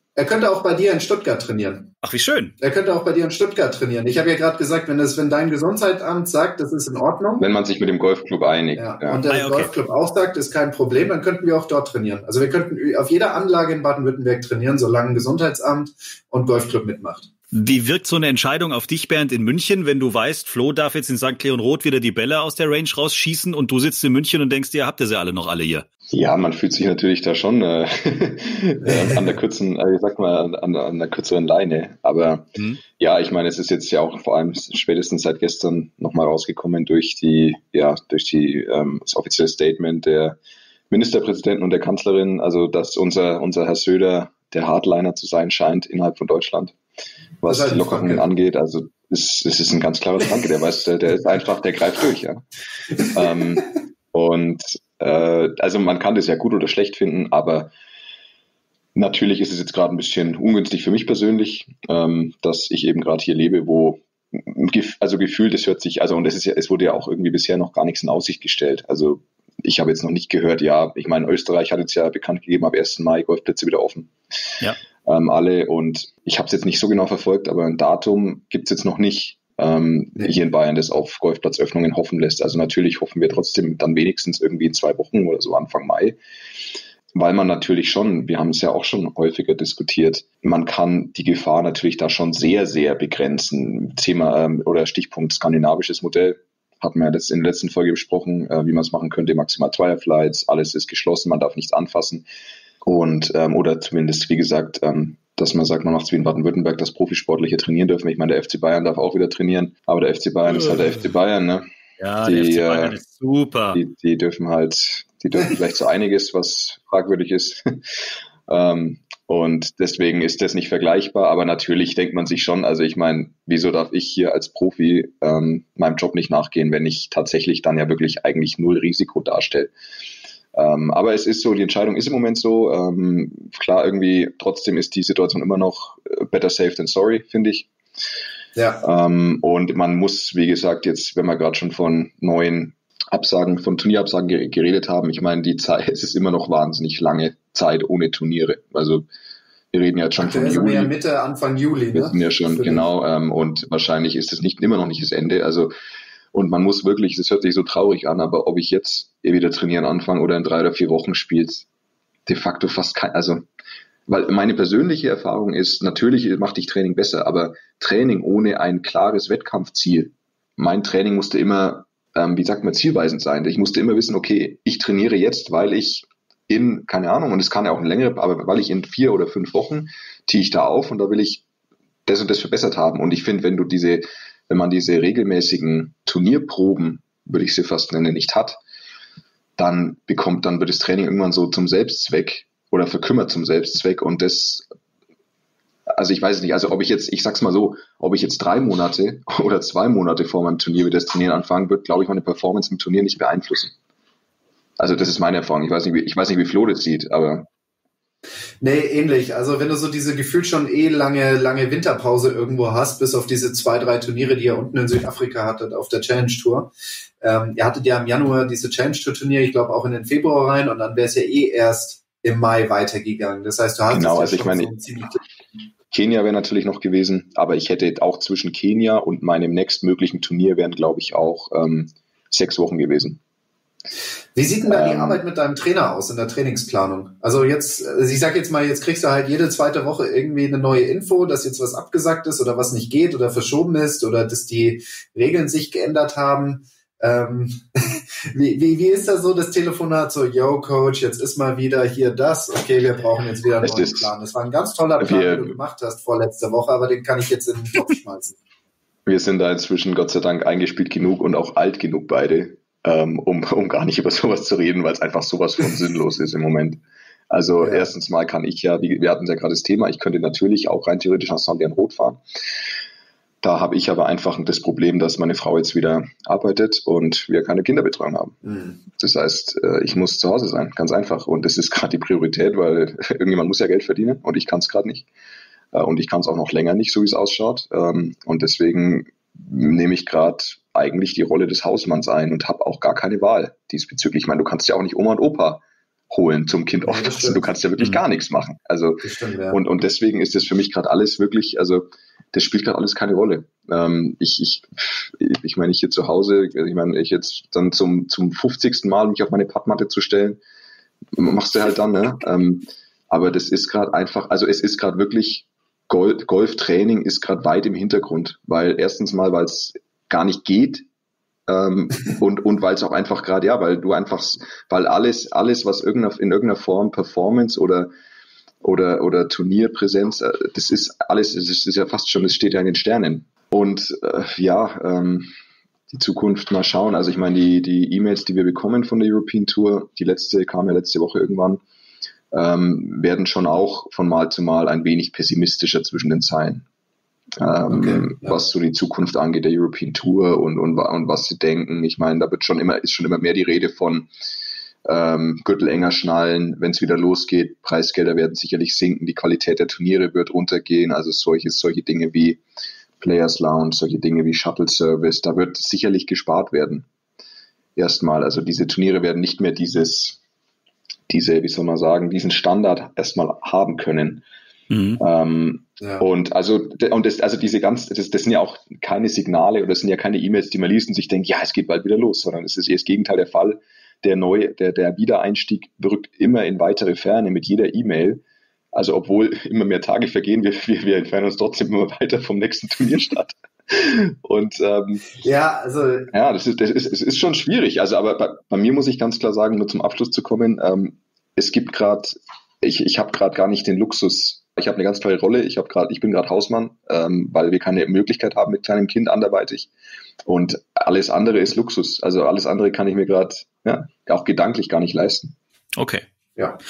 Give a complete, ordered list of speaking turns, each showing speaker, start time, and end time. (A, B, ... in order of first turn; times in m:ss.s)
0:00.2-0:01.9 A
0:02.0-0:02.5 B
0:02.6-0:07.4 A
0:07.4-0:09.2 C
0:08.8-0:17.3 A
0:09.3-0:09.7 B
0:17.5-0:25.8 B
0:26.1-0:40.4 C
0:28.8-0:29.3 A
0:40.9-0:46.8 C
0:47.4-0:52.4 C
0:47.5-0:48.3 A
0:53.1-0:57.7 C
0:58.9-1:14.1 C
1:15.0-1:26.2 C
1:27.1-1:42.2 C
1:42.8-1:51.7 C
1:50.5-1:51.0 B
1:52.0-1:53.8 B
1:52.2-1:53.0 C
1:53.7-1:57.8 C
1:58.5-2:09.7 C
2:10.5-2:17.7 C
2:18.6-2:18.8 A
2:18.8-2:29.0 C
2:29.7-2:30.9 C
2:30.2-2:32.8 A
2:31.9-2:35.7 C
2:36.3-2:41.6 C
2:42.3-2:43.5 C
2:44.1-3:01.4 C
3:02.0-3:08.6 C
3:09.6-3:14.7 C
3:15.9-3:23.7 C
3:24.8-3:27.5 C
3:28.6-3:45.2 A
3:43.9-3:44.7 C
3:45.9-3:53.2 C
3:54.3-4:18.4 A
3:54.6-3:55.2 C
4:13.6-4:14.1 C
4:15.0-4:15.6 C
4:19.1-4:32.2 C
4:27.6-4:27.9 A
4:33.4-4:38.4 C
4:38.4-4:38.8 A
4:38.9-4:45.0 C
4:45.7-5:10.4 C
4:56.8-4:57.5 A
4:59.0-4:59.6 A
5:11.1-5:20.8 C
5:21.5-5:27.9 C
5:28.6-5:35.3 C
5:35.9-5:41.6 C
5:42.3-5:46.6 C
5:47.4-5:54.1 C
5:47.7-5:48.4 A
5:54.8-6:02.4 C
6:03.0-6:06.8 C
6:07.8-6:10.2 C
6:11.1-6:14.2 C
6:14.7-6:15.0 B
6:15.0-6:28.2 C
6:15.8-6:16.0 A
6:28.7-6:35.1 C
6:35.2-6:36.1 A
6:36.1-6:49.7 C
6:50.2-6:55.3 C
6:55.8-6:56.0 B